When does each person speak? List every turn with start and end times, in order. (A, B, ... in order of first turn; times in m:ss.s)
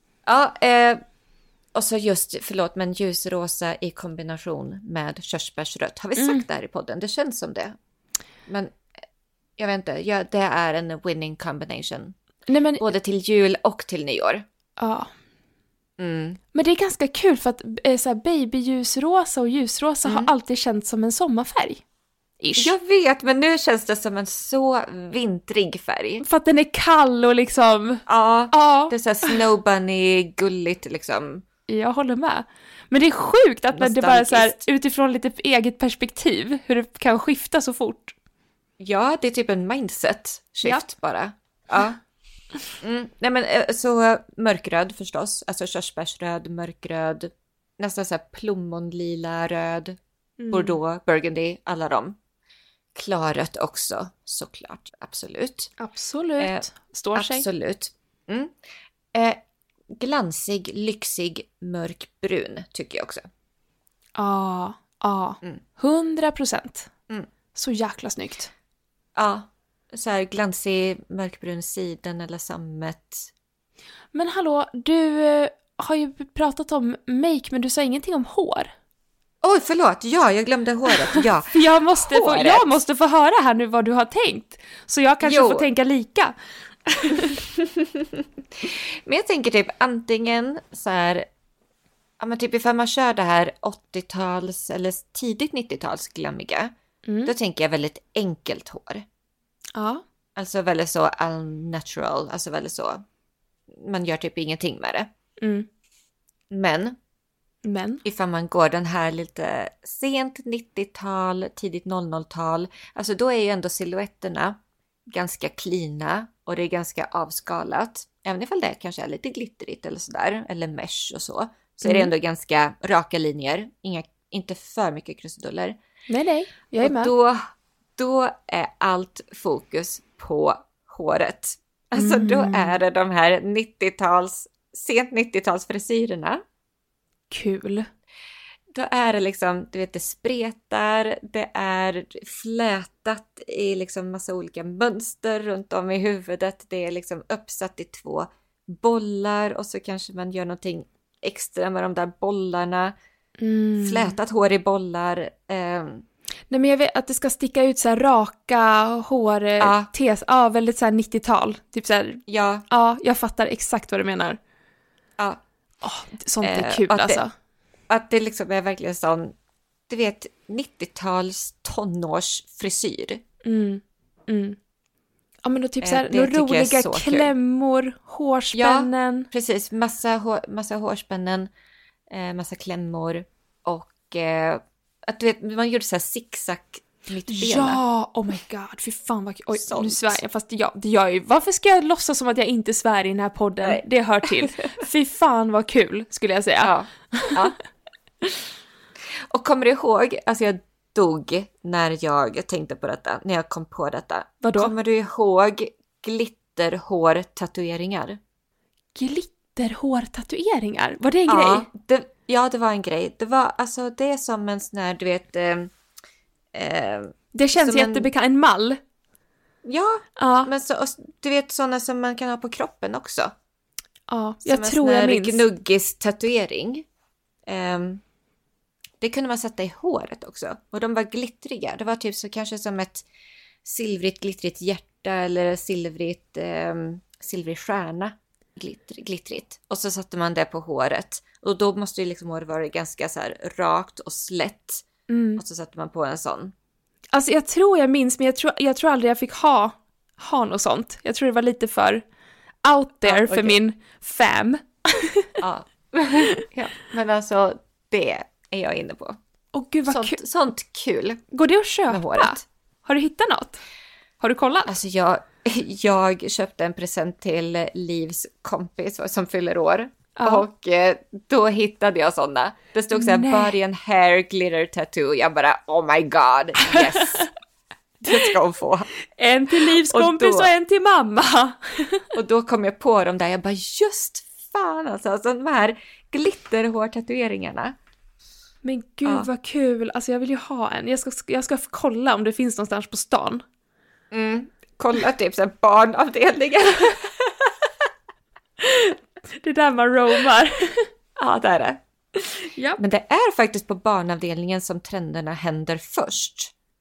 0:00.3-0:01.0 A
0:01.7-0:07.8 A
0:06.2-0:06.4 B
0:08.5-0:08.8 A
0:09.6-0:12.2 A
0:12.5-0:12.8 B
0:12.8-0:14.4 A
0:14.8-0:15.1 B
0:16.0-0:16.4 A
0:16.5-0:21.8 B
0:20.0-0:20.3 A
0:22.4-0:22.7 B
0:22.6-0:26.2 A
0:26.2-0:29.4 B
0:28.1-0:31.4 A
0:31.7-0:38.1 B
0:33.7-0:34.6 A
0:38.8-0:42.0 A
0:42.8-0:50.0 A
0:50.4-0:50.8 B
0:50.5-0:52.2 A
0:52.9-0:55.7 A
0:55.8-0:57.4 B
0:56.4-0:58.5 A
0:59.1-0:59.4 A
1:00.0-1:03.2 A
1:04.2-1:06.9 B
1:07.5-1:08.5 B
1:09.2-1:13.3 A
1:14.1-1:18.7 B
1:19.4-1:22.8 A
1:20.9-1:26.3 B
1:25.2-1:25.7 A
1:26.8-1:27.4 B
1:27.2-1:28.0 A
1:28.6-1:31.3 A
1:32.2-1:36.7 A
1:37.0-1:37.3 B
1:37.2-1:39.0 A
1:39.7-1:40.0 B
1:40.4-1:43.0 A
1:43.7-1:45.1 A
1:45.4-1:45.7 B
1:46.5-1:47.0 A
1:47.6-1:48.0 B
1:48.0-2:05.8 A
2:01.8-2:02.1 B
2:06.1-2:07.1 B
2:06.8-2:07.4 A
2:08.0-2:16.4 A
2:12.0-2:12.8 B
2:17.3-2:17.9 B
2:18.7-2:32.9 A
2:33.4-2:34.1 B
2:33.8-2:36.0 A
2:36.5-2:44.4 B
2:39.6-2:39.9 A
2:42.3-2:42.6 A
2:45.8-2:47.3 B
2:46.4-2:47.2 A
2:47.9-2:49.3 A
2:49.9-2:53.2 A
2:53.4-2:54.6 B
2:55.4-2:59.3 B
2:55.8-2:57.3 A
2:58.5-3:01.5 A
3:02.1-3:07.8 A
3:07.3-3:17.5 B
3:09.5-3:10.2 A
3:14.4-3:14.8 A
3:16.6-3:17.6 A
3:19.3-3:28.2 A
3:24.4-3:24.7 B
3:28.9-3:31.7 B
3:31.3-3:35.7 A
3:36.5-3:38.1 A
3:37.3-3:38.8 B
3:39.6-3:43.3 A
3:40.2-3:40.5 B
3:44.1-3:45.4 B
3:44.4-3:46.8 A
3:47.5-3:48.0 A
3:49.0-3:53.0 A
3:53.6-4:06.5 A
4:05.1-4:05.4 B
4:07.1-4:12.0 B
4:12.6-4:15.4 B
4:13.0-4:13.6 A
4:15.4-4:19.2 A
4:19.5-4:20.2 B
4:19.8-4:21.2 A
4:21.3-4:23.6 B
4:21.9-4:22.4 A
4:24.2-4:24.7 B
4:24.6-4:37.3 A
4:30.2-4:30.4 B
4:32.9-4:33.5 B
4:36.7-4:37.2 B
4:38.0-4:38.9 A
4:39.1-4:42.1 B
4:39.5-4:40.5 A
4:42.1-4:47.7 A
4:48.6-4:53.4 B
4:54.1-4:57.5 A
4:58.6-5:00.9 B
5:01.2-5:01.8 A
5:02.6-5:02.8 B
5:02.8-5:06.5 A